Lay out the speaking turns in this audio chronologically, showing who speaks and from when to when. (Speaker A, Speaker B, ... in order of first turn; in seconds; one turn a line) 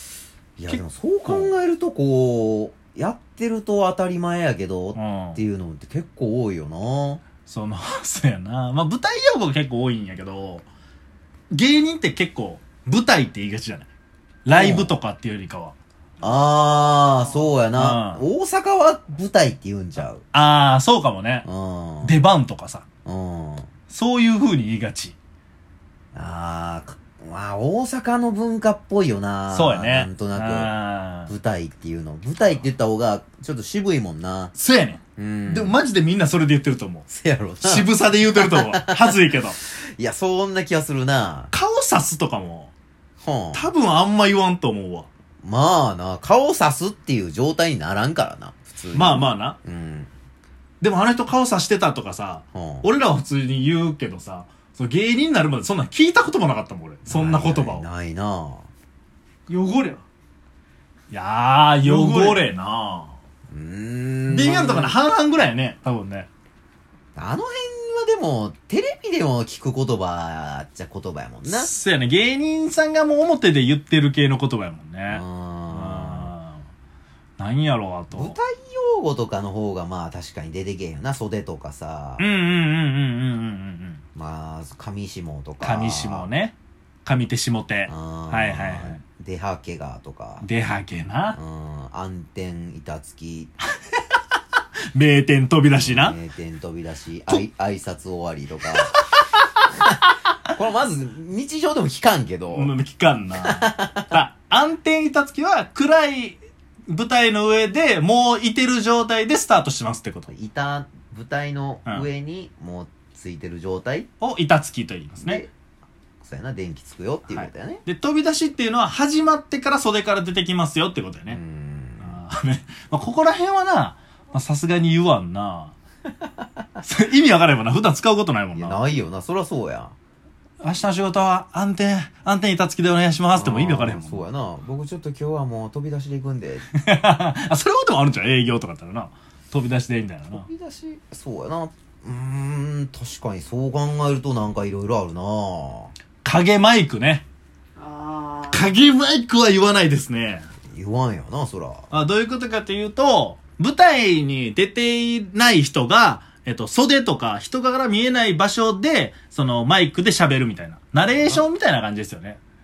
Speaker A: 0.6-7.2
Speaker B: 0.7-1.5
Speaker B: 4.9-5.4
Speaker B: 7.5-10.7
Speaker B: 11.5-13.9
Speaker B: 14.4-15.7
Speaker A: 14.5-14.9
Speaker C: 16.2-17.6
Speaker A: 16.2-20.2
Speaker B: 17.8-18.2
Speaker B: 20.3-21.4
Speaker A: 21.4-22.1
Speaker B: 22.0-22.9
Speaker A: 23.0-23.7
Speaker B: 23.9-25.1
Speaker A: 26.1-30.7
Speaker B: 29.5-31.3
Speaker A: 31.3-34.5
Speaker B: 34.5-37.0
Speaker A: 35.2-35.8
Speaker A: 37.1-41.5
Speaker B: 37.6-39.6
Speaker B: 41.5-42.7
Speaker A: 43.2-43.7
Speaker B: 43.5-45.1
Speaker A: 45.4-50.1
Speaker B: 48.9-49.6
Speaker B: 50.8-57.9
Speaker A: 52.5-52.9
Speaker A: 57.1-58.7
Speaker C: 59.5-60.0
Speaker B: 61.1-63.1
Speaker C: 61.8-62.4
Speaker A: 63.5-65.0
Speaker B: 64.3-66.3
Speaker A: 67.2-71.7
Speaker B: 71.5-76.6
Speaker A: 75.1-76.3
Speaker B: 77.4-78.3
Speaker A: 78.1-82.2
Speaker B: 82.2-84.0
Speaker A: 84.2-86.3
Speaker B: 85.6-89.0
Speaker A: 87.9-90.5
Speaker B: 90.4-91.4
Speaker A: 91.3-93.5
Speaker B: 94.9-96.2
Speaker A: 95.8-98.9
Speaker B: 98.9-99.6
Speaker A: 100.5-102.7
Speaker B: 102.5-110.3
Speaker A: 103.5-104.2
Speaker A: 110.3-114.1
Speaker B: 114.2-115.4
Speaker A: 115.2-115.5
Speaker A: 116.2-117.8
Speaker B: 117.3-121.4
Speaker A: 121.3-122.2
Speaker B: 122.0-125.7
Speaker B: 126.8-128.9
Speaker A: 128.5-129.9
Speaker B: 130.6-134.2
Speaker A: 133.4-136.6
Speaker B: 136.7-140.5
Speaker A: 140.3-145.9
Speaker B: 146.2-147.2
Speaker C: 147.8-148.8
Speaker B: 148.5-150.5
Speaker A: 150.7-151.9
Speaker B: 151.9-162.4
Speaker A: 161.2-161.4